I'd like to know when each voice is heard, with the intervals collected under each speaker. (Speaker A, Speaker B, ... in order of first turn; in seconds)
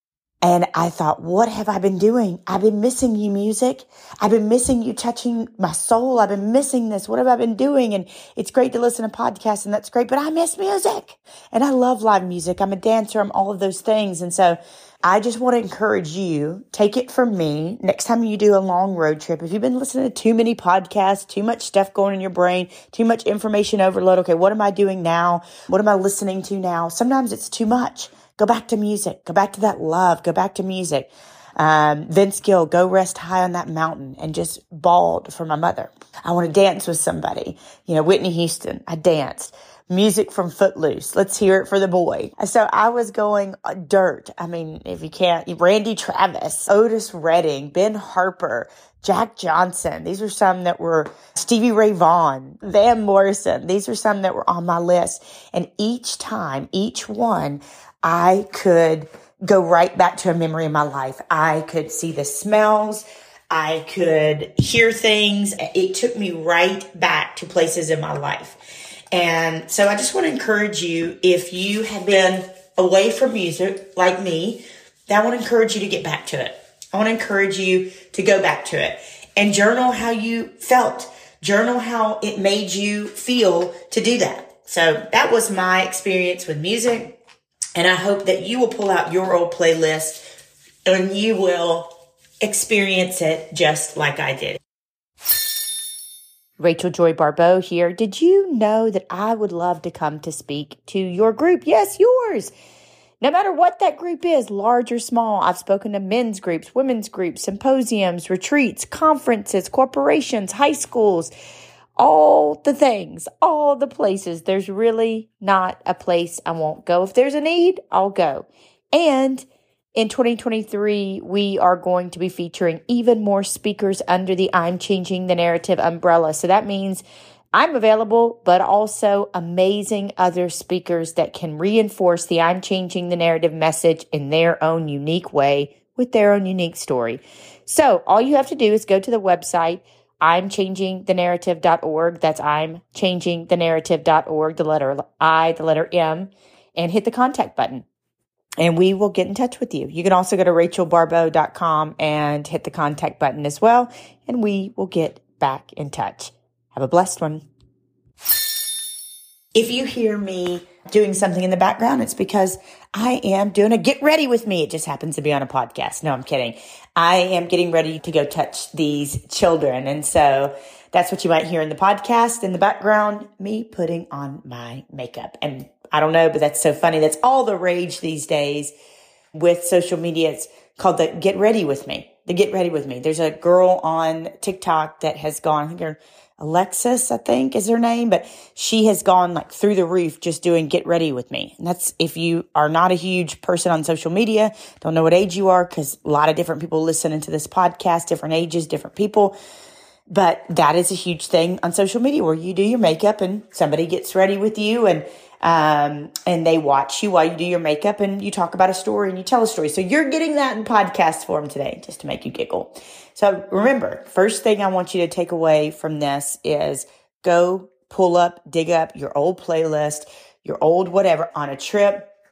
Speaker A: 0.4-68.6, 69.1-87.2, 87.8-90.2, 90.9-91.9, 92.4-94.6, 96.6-102.5, 103.2-111.3, 112.0-147.9, 148.6-157.5, 159.6-178.7, 179.3-199.4, 200.1-222.1